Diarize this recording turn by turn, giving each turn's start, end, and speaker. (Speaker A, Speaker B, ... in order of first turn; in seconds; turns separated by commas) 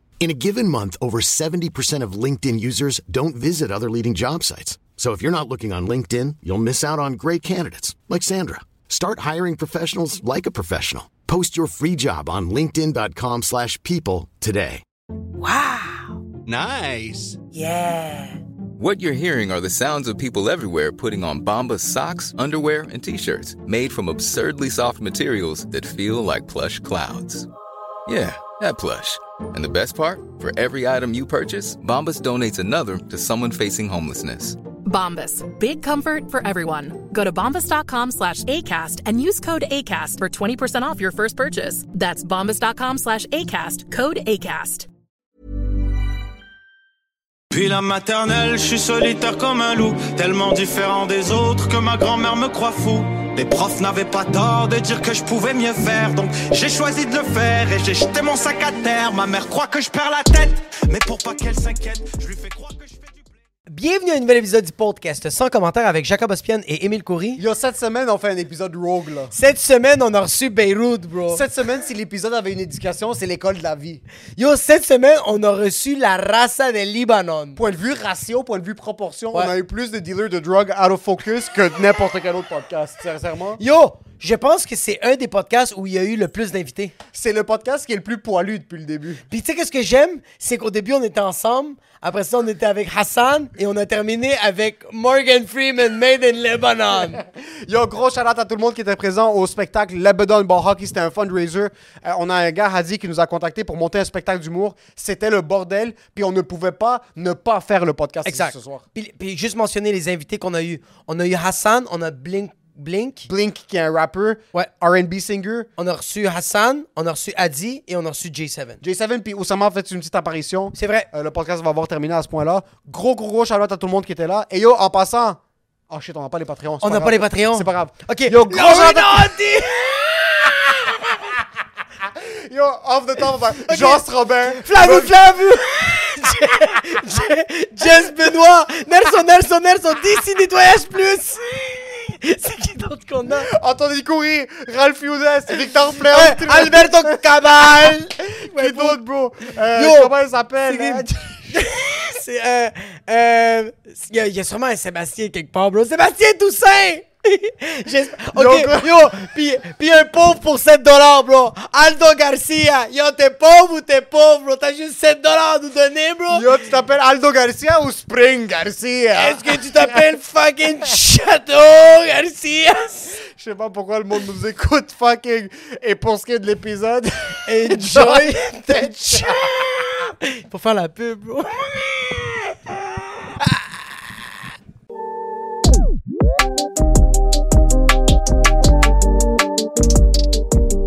Speaker A: 0.2-14.8, Speaker B: 15.4-16.1, Speaker B: 17.6-18.3, Speaker C: 18.8-27.5, Speaker C: 28.1-34.6, Speaker D: 34.9-44.9, Speaker E: 47.5-63.3, Speaker B: 63.7-67.4, Speaker F: 67.4-69.3, Speaker B: 69.3-71.4, Speaker F: 71.3-74.0, Speaker B: 74.4-77.6, Speaker F: 77.6-83.6, Speaker B: 83.6-86.9, Speaker F: 87.1-89.2, Speaker B: 89.3-97.2, Speaker F: 97.5-108.8, Speaker B: 108.2-113.3, Speaker F: 113.3-115.7, Speaker B: 115.8-118.8, Speaker F: 118.8-129.4, Speaker B: 120.7-121.1, Speaker B: 126.8-131.0, Speaker F: 132.0-135.2, Speaker B: 133.6-143.5, Speaker F: 143.5-151.7, Speaker B: 146.1-150.2, Speaker B: 150.7-166.6, Speaker F: 158.2-159.2, Speaker F: 166.3-170.1, Speaker B: 169.2-173.2, Speaker F: 173.2-179.9, Speaker B: 177.5-182.6, Speaker B: 183.4-183.8